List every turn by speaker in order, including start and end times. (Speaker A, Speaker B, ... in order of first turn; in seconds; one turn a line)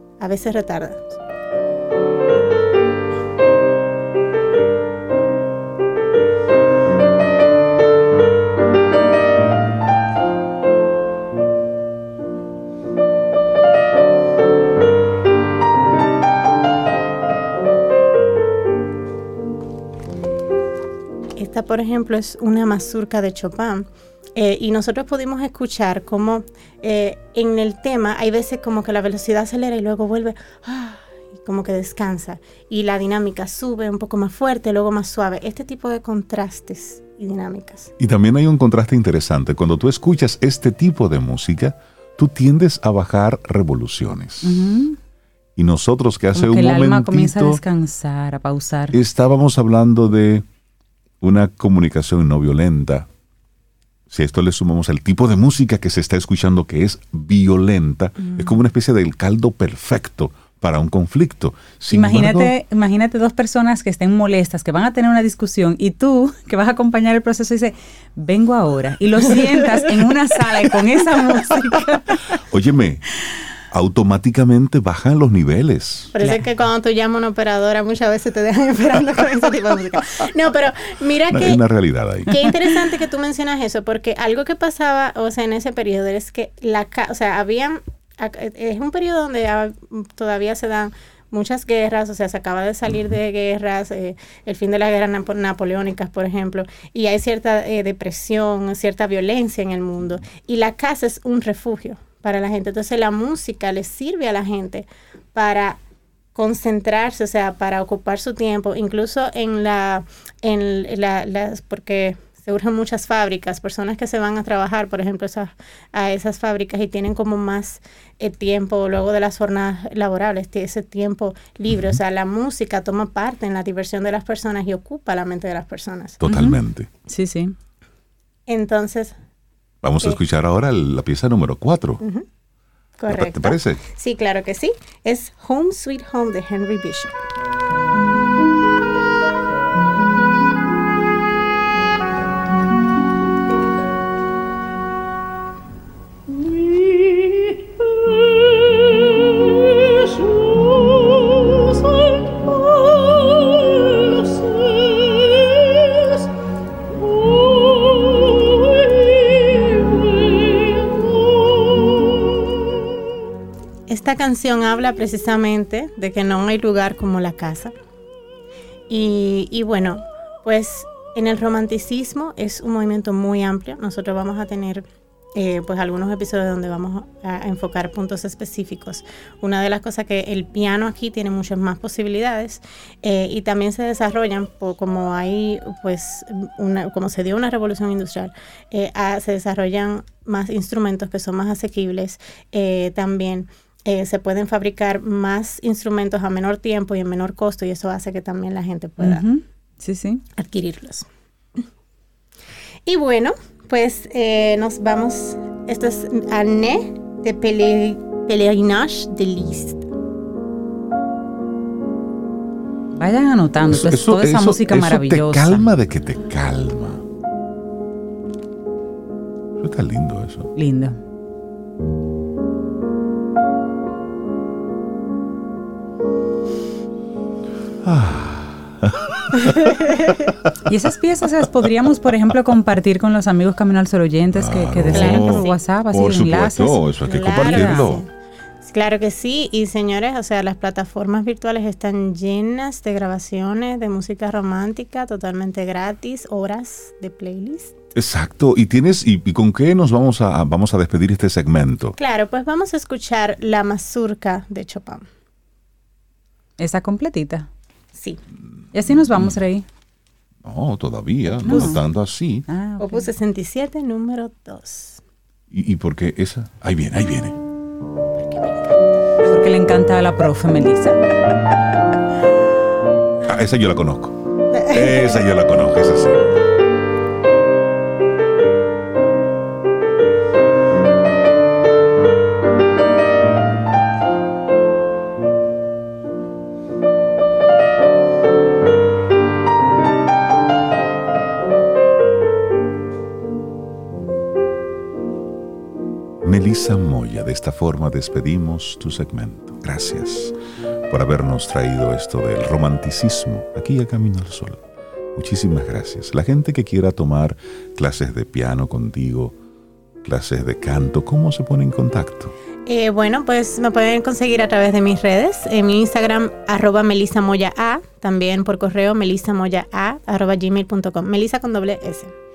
Speaker A: 0.2-1.1
Speaker A: 21.4-37.9
Speaker B: 38.0-44.6
Speaker C: 44.4-45.0
Speaker B: 45.5-47.6
Speaker C: 46.3-49.0
Speaker B: 48.9-50.4
Speaker B: 51.2-53.1
Speaker B: 54.1-62.5
Speaker C: 61.9-72.2
Speaker B: 72.5-73.0
Speaker B: 73.7-76.1
Speaker A: 76.1-81.6
Speaker C: 76.2-76.4
Speaker B: 81.3-82.7
Speaker A: 82.3-105.8
Speaker A: 106.3-126.2
Speaker B: 121.7-122.0
Speaker B: 126.2-126.9
Speaker C: 126.3-127.5
Speaker A: 128.5-129.2
Speaker B: 129.8-132.0
Speaker A: 132.0-132.2
Speaker A: 133.0-137.1
Speaker B: 133.1-133.8
Speaker A: 163.9-167.7
Speaker A: 168.9-199.2
Speaker C: 199.0-200.2
Speaker A: 200.4-201.1
Speaker A: 202.8-209.8
Speaker C: 212.9-215.7
Speaker B: 213.7-217.0
Speaker B: 219.6-220.5
Speaker C: 220.6-221.0
Speaker B: 227.8-229.7
Speaker C: 230.6-236.8
Speaker B: 234.3-238.0
Speaker A: 234.9-235.6
Speaker A: 237.0-238.1
Speaker C: 237.3-237.9
Speaker A: 238.6-247.7
Speaker B: 247.9-251.9
Speaker A: 252.0-255.1
Speaker C: 256.6-257.5
Speaker A: 257.9-258.2
Speaker C: 258.7-259.6
Speaker B: 260.4-262.4
Speaker C: 261.4-261.8
Speaker C: 262.5-263.1
Speaker A: 262.8-265.0
Speaker B: 265.5-267.4
Speaker A: 268.2-268.9
Speaker C: 269.2-271.0
Speaker B: 273.2-276.3
Speaker A: 274.5-275.2
Speaker B: 296.2-300.3
Speaker B: 300.9-304.6
Speaker B: 305.1-309.4
Speaker B: 310.0-312.3
Speaker A: 312.6-322.1